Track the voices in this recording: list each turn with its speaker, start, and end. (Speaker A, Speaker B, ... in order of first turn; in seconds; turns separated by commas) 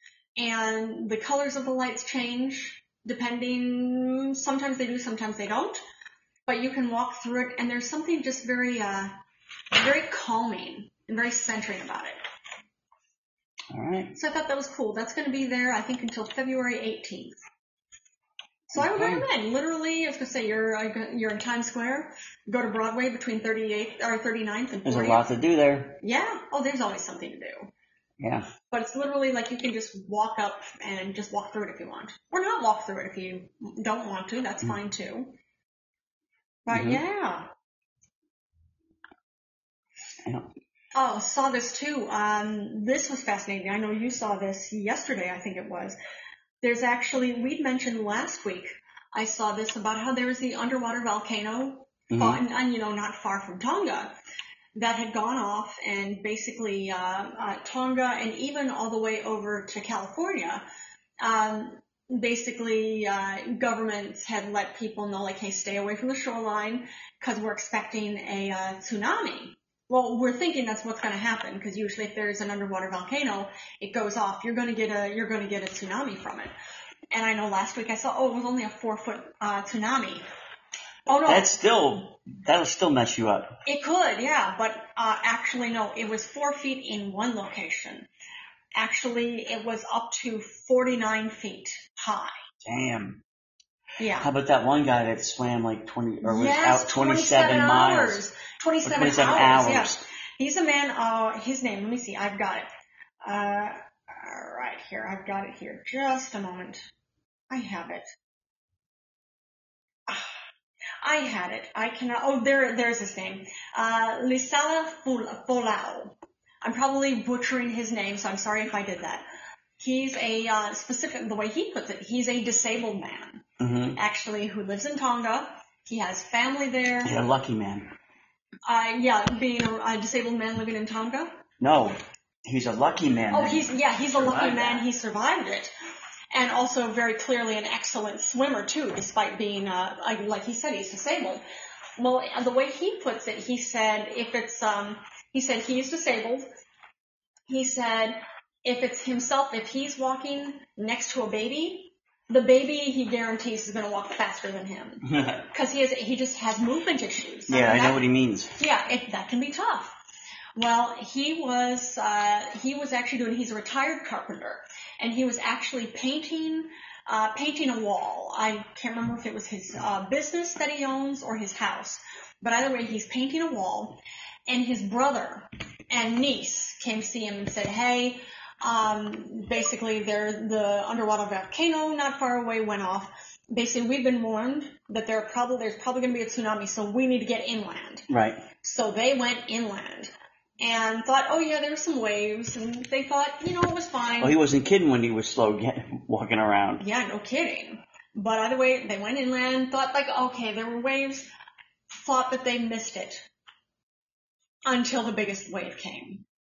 Speaker A: 0.4-5.8, Speaker A: 6.5-9.2, Speaker A: 9.7-12.2, Speaker B: 13.7-14.1, Speaker A: 14.1-17.4, Speaker A: 18.7-25.3, Speaker B: 18.8-19.3, Speaker B: 24.9-26.0, Speaker A: 26.0-27.7, Speaker B: 28.2-28.5, Speaker A: 28.7-35.4, Speaker A: 36.7-37.5, Speaker B: 36.7-37.0, Speaker A: 41.0-46.0, Speaker A: 46.6-54.1, Speaker B: 52.1-52.4, Speaker A: 54.8-60.6, Speaker A: 61.2-76.5, Speaker A: 77.1-80.2, Speaker A: 81.1-81.5, Speaker B: 81.2-83.6, Speaker A: 83.7-88.1, Speaker A: 88.8-92.3, Speaker B: 92.6-93.2, Speaker A: 94.0-94.3, Speaker B: 94.2-98.2, Speaker A: 96.2-102.7, Speaker B: 98.8-100.0, Speaker A: 103.2-106.9, Speaker A: 107.5-108.0, Speaker A: 111.0-119.3, Speaker A: 119.8-123.4, Speaker B: 123.6-124.0, Speaker A: 124.0-127.2, Speaker B: 127.0-127.9, Speaker A: 128.7-131.4, Speaker B: 131.6-134.8, Speaker A: 133.3-135.7, Speaker A: 136.3-141.4, Speaker A: 142.0-146.5, Speaker A: 147.5-158.1, Speaker B: 155.1-155.4, Speaker B: 157.5-158.6, Speaker A: 158.6-159.9, Speaker A: 160.6-188.1, Speaker B: 188.1-188.4, Speaker A: 188.6-194.4, Speaker B: 194.2-196.8, Speaker A: 196.8-201.3, Speaker A: 201.9-203.3, Speaker A: 204.7-206.2